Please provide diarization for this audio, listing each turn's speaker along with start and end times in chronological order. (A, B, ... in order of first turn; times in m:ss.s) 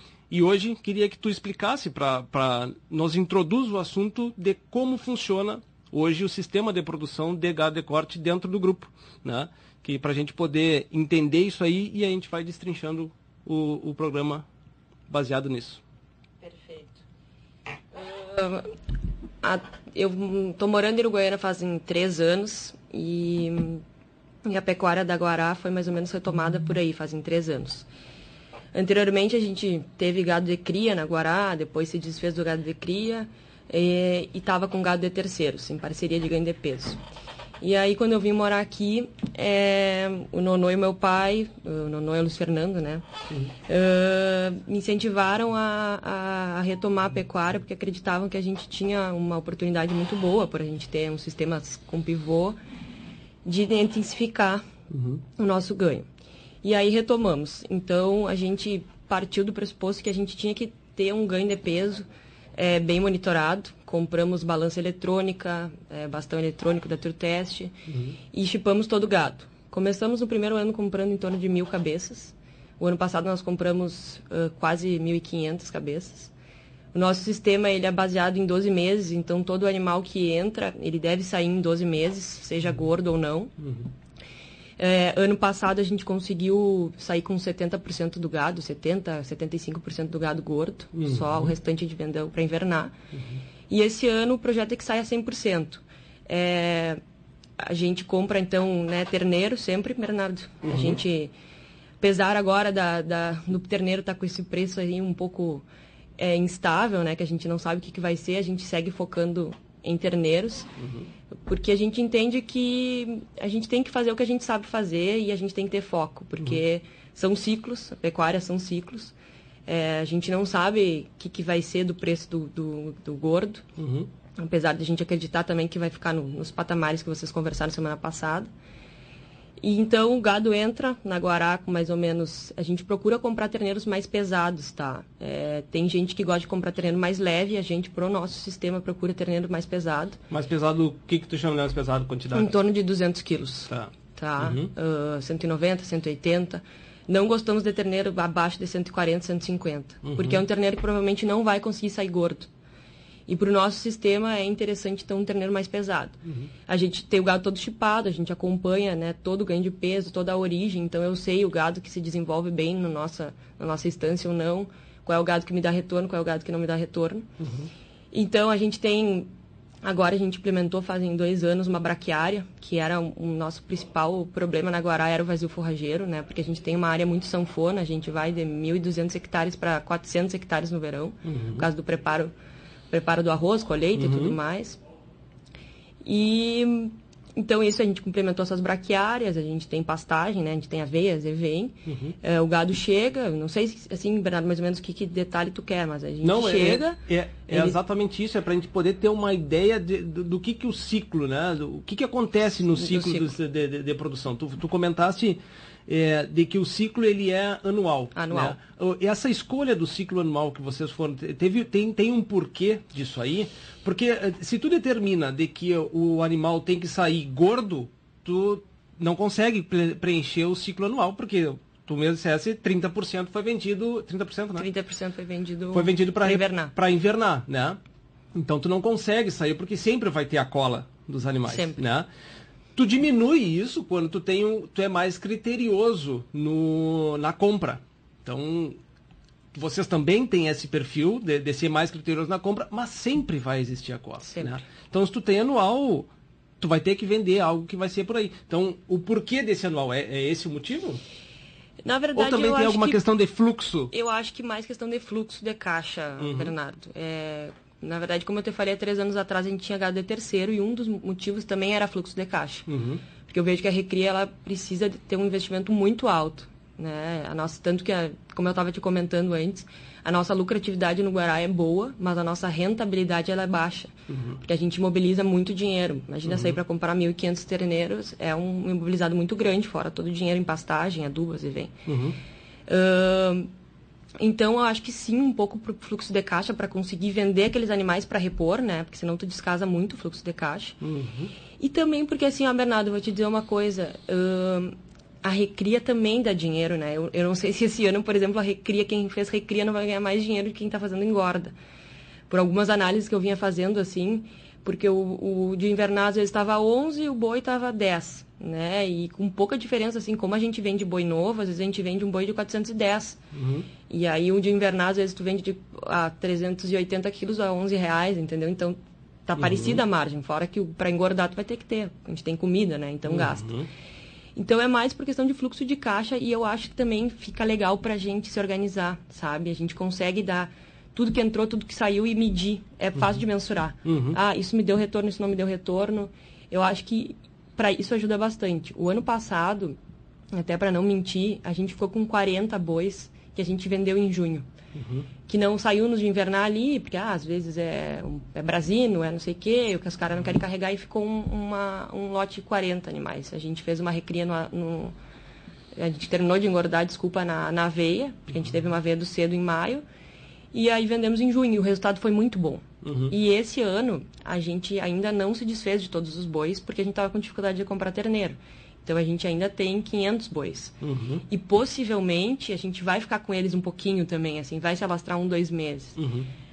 0:00.3-0:14.5 A
0:15.1-0:15.8 A
0:16.4-0:17.0 B
0:17.9-0:18.7 B
0:19.4-0:23.8 B
0:24.4-0:27.9 B
0:28.7-0:37.0 B
0:37.6-0:43.0 B
0:43.7-0:52.6 B
0:53.4-0:54.6 B
0:54.9-0:55.2 A
0:55.4-0:56.1 B
0:56.6-1:07.8 B
1:07.9-1:08.2 A
1:08.3-1:16.3 B
1:16.9-1:23.5 B
1:23.6-1:23.9 A
1:24.8-1:33.0 B
1:30.9-1:31.5 A
1:33.1-1:33.4 A
1:33.7-1:37.0 B
1:37.6-1:41.3 B
1:40.6-1:41.0 A
1:42.0-1:45.6 B
1:46.2-1:50.7 B
1:50.8-1:51.1 A
1:51.4-1:59.2 B
1:59.7-2:03.6 B
2:03.8-2:04.1 A
2:04.4-2:08.5 B
2:09.6-2:20.2 B
2:20.3-2:22.5 A
2:22.4-2:32.5 B
2:23.7-2:24.7 A
2:30.0-2:30.4 A
2:33.3-2:47.3 B
2:36.2-2:36.5 A
2:47.4-2:47.7 A
2:48.1-2:49.3 B
2:49.8-3:02.3 B
3:01.2-3:01.7 A
3:02.9-3:04.8 B
3:04.0-3:04.4 A
3:06.0-3:17.8 B
3:11.9-3:12.2 A
3:16.2-3:44.7 A
3:22.8-3:23.3 B
3:28.2-3:28.6 B
3:44.6-3:46.7 B
3:45.7-3:47.8 A
3:48.3-3:52.1 A
3:51.5-3:51.8 B
3:52.8-3:58.8 A
3:59.5-4:06.1 A
4:04.3-4:04.6 B
4:06.6-4:11.0 A
4:11.8-4:13.0 B
4:12.2-4:13.9 A
4:13.9-4:22.7 B
4:16.2-4:16.5 A
4:22.7-4:23.0 A
4:23.3-4:41.8 B
4:34.1-4:34.4 A
4:36.3-4:36.6 A
4:41.9-4:42.2 A
4:42.7-4:43.5 B
4:44.2-4:50.8 B
4:50.8-4:51.3 A
4:51.6-5:01.6 B
5:02.3-5:13.2 B
5:13.3-5:13.7 A
5:13.9-5:23.6 B
5:19.4-5:19.8 A
5:23.1-5:23.7 A
5:24.4-5:39.8 B
5:33.8-5:34.2 A
5:40.3-5:44.5 B
5:44.8-5:45.1 A
5:45.3-5:54.9 B
5:55.8-5:59.8 B
6:00.5-6:10.8 B
6:02.8-6:03.1 A
6:10.8-6:11.2 A
6:11.3-6:16.0 B
6:16.0-6:16.3 A